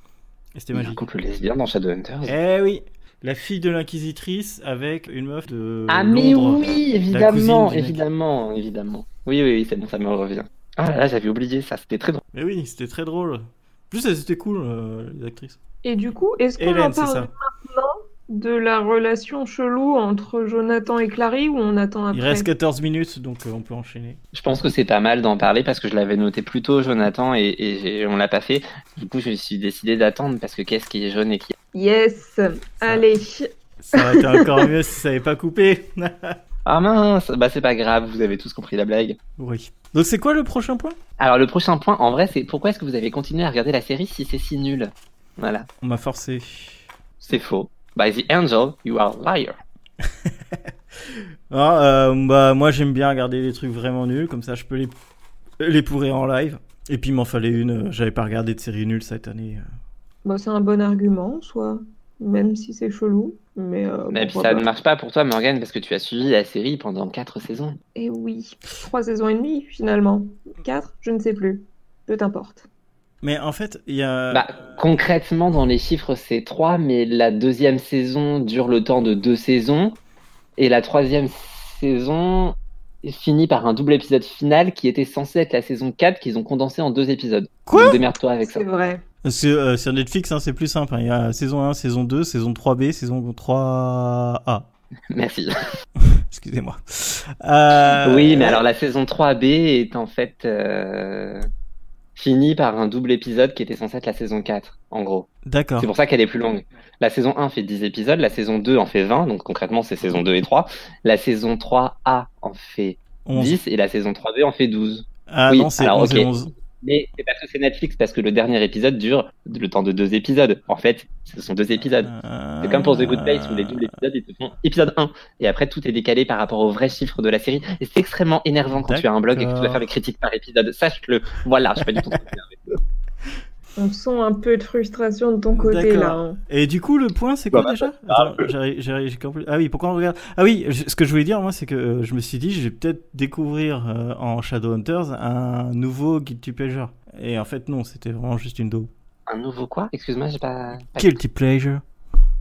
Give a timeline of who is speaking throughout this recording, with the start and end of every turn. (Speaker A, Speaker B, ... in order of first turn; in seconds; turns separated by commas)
Speaker A: 0.6-1.0, Speaker B: 0.7-2.3, Speaker A: 2.3-8.0, Speaker B: 5.9-12.2, Speaker A: 12.3-15.6, Speaker C: 15.8-22.5, Speaker A: 16.6-17.3, Speaker A: 22.1-24.2, Speaker B: 24.3-31.6, Speaker C: 31.7-34.7, Speaker A: 33.8-36.4, Speaker B: 36.7-39.2, Speaker A: 39.4-41.0, Speaker B: 41.2-45.7, Speaker A: 45.8-46.8, Speaker B: 47.2-49.6, Speaker A: 51.5-54.9, Speaker A: 55.6-59.6, Speaker C: 60.2-64.7, Speaker B: 64.1-67.8, Speaker C: 68.0-72.7, Speaker A: 73.2-74.8, Speaker B: 74.3-80.0, Speaker B: 80.6-88.7, Speaker A: 87.7-88.0, Speaker C: 88.4-89.0, Speaker A: 89.2-94.7, Speaker B: 95.1-95.5, Speaker A: 96.0-98.6, Speaker B: 98.0-101.5, Speaker B: 102.2-105.3, Speaker A: 105.5-105.9, Speaker B: 105.8-122.1, Speaker A: 113.2-113.6, Speaker A: 115.3-116.5, Speaker A: 122.0-123.9, Speaker B: 122.6-132.8, Speaker A: 128.8-129.8, Speaker C: 133.8-136.4, Speaker A: 135.6-148.9, Speaker B: 137.5-138.5, Speaker B: 149.3-151.1, Speaker A: 151.0-151.8